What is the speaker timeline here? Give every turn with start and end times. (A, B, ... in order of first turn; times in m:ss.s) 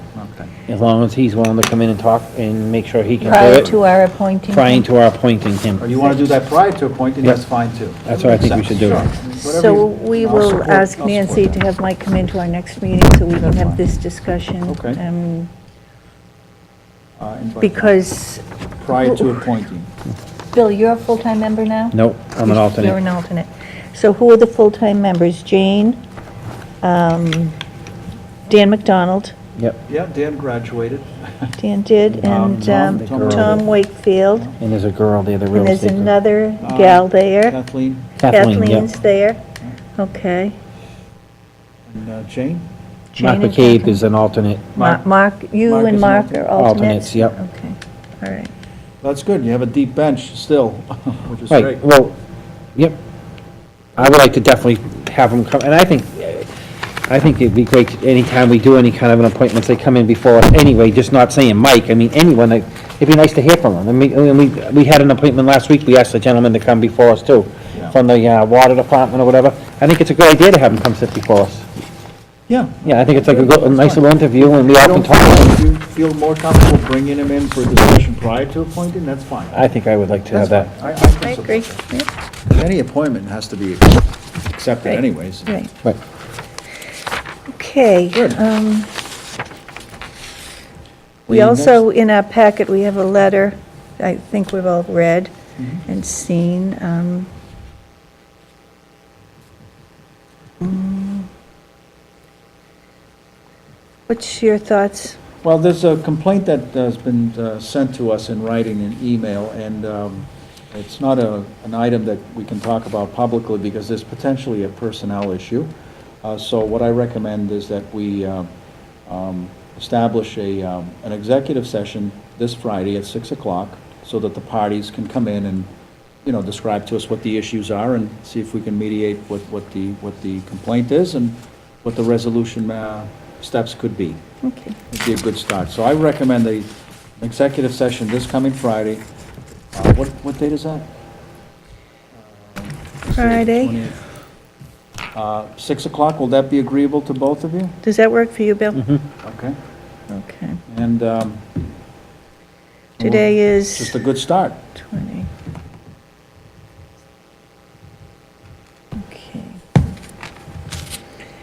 0:00.1-0:00.5 A
0:00.7-0:03.8 B
0:03.2-0:04.9 C
0:04.5-0:05.9 B
0:05.8-0:11.6 A
0:08.0-0:09.0 B
0:09.4-0:15.5 C
0:13.4-0:13.8 A
0:14.6-0:15.0 A
0:17.2-0:18.1 A
0:17.6-0:18.4 C
0:18.8-0:19.9 A
0:19.0-0:19.4 C
0:20.5-0:26.0 C
0:21.9-0:23.0 B
0:26.8-0:27.6 C
0:28.5-0:29.3 C
0:29.9-0:31.5 A
0:31.6-0:34.5 C
0:32.1-0:33.6 B
0:32.2-0:33.7 A
0:34.6-0:36.1 B
0:35.5-0:37.6 C
0:36.6-0:38.2 A
0:38.2-0:38.9 B
0:38.3-0:39.4 C
0:40.0-0:40.5 C
0:41.9-0:42.6 A
0:43.1-0:44.0 C
0:43.2-0:44.7 B
0:44.7-0:45.0 A
0:44.8-0:48.5 C
0:45.6-0:46.5 A
0:46.6-0:47.3 B
0:49.0-0:51.8 A
0:51.5-0:52.2 B
0:54.0-0:56.5 B
0:57.1-1:11.7 B
1:12.5-1:19.6 A
1:12.8-1:15.6 B
1:19.5-1:20.7 B
1:20.3-1:21.8 A
1:21.2-1:22.1 C
1:22.5-1:25.6 A
1:24.9-1:25.7 C
1:27.5-1:28.9 C
1:28.1-1:28.4 A
1:31.3-1:31.8 A
1:31.3-1:35.3 C
1:35.6-1:35.8 A
1:35.9-1:37.3 C
1:40.6-1:41.2 C
1:44.1-1:45.2 C
1:45.4-1:55.7 A
1:56.2-1:58.5 A
1:59.1-2:05.7 A
2:06.2-2:14.2 A
2:14.4-2:14.8 C
2:14.9-2:16.7 A
2:17.2-2:19.0 A
2:19.7-2:20.9 A
2:22.3-2:24.0 A
2:23.1-2:23.8 C
2:25.1-2:27.7 A
2:27.8-2:29.0 C
2:29.2-2:29.6 A
2:30.1-2:30.6 C
2:30.7-2:31.4 A
2:33.0-2:34.6 A
2:33.0-2:34.0 C
2:34.8-2:35.3 C
2:39.0-2:39.6 C